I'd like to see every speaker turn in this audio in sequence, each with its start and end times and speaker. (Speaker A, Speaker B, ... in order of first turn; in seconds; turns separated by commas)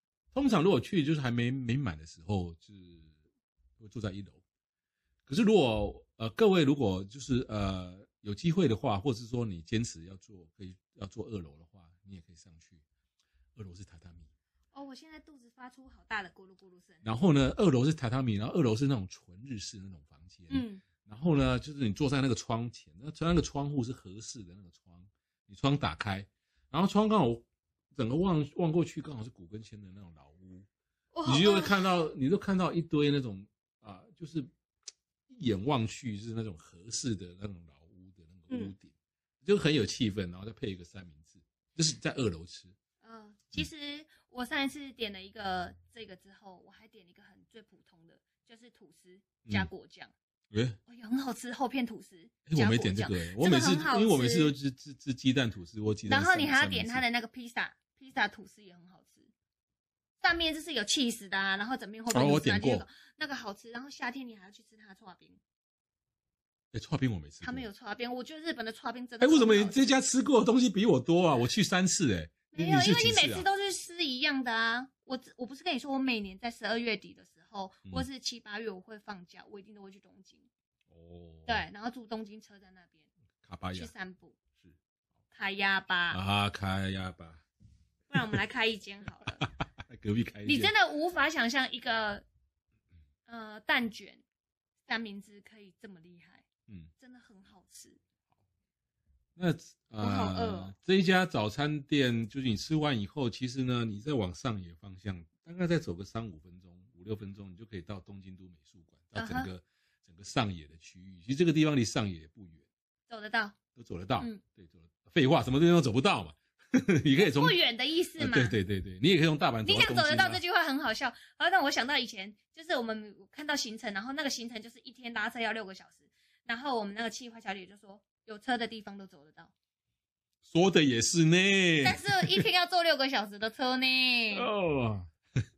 Speaker A: 0.3-3.1, Speaker A: 3.8-4.4, Speaker A: 5.3-12.8, Speaker A: 13.6-14.3, Speaker B: 14.7-17.0, Speaker A: 17.0-30.6, Speaker B: 20.5-20.8, Speaker B: 31.1-31.9, Speaker A: 31.2-34.5, Speaker A: 35.3-42.7, Speaker B: 43.0-50.1, Speaker A: 50.5-50.8, Speaker B: 50.9-54.5, Speaker A: 52.5-57.0, Speaker B: 56.0-59.3, Speaker B: 60.2-65.4, Speaker A: 62.1-62.9, Speaker A: 66.7-67.7, Speaker B: 67.4-69.9, Speaker A: 69.2-73.5, Speaker B: 72.5-80.5, Speaker A: 80.9-81.6, Speaker B: 81.5-83.1, Speaker A: 83.4-83.9, Speaker B: 83.7-84.4, Speaker B: 85.3-86.2, Speaker A: 86.1-87.4, Speaker B: 88.1-89.4, Speaker A: 89.4-90.7, Speaker B: 90.4-92.2, Speaker B: 93.3-94.2, Speaker B: 94.9-96.5, Speaker B: 97.0-98.0, Speaker A: 99.4-112.6, Speaker B: 100.0-100.7, Speaker B: 109.1-109.5, Speaker B: 113.1-113.5, Speaker A: 113.7-117.6, Speaker B: 117.2-118.5, Speaker A: 118.2-120.4, Speaker B: 119.6-129.5, Speaker A: 130.4-132.4, Speaker B: 131.8-134.5, Speaker A: 134.3-135.1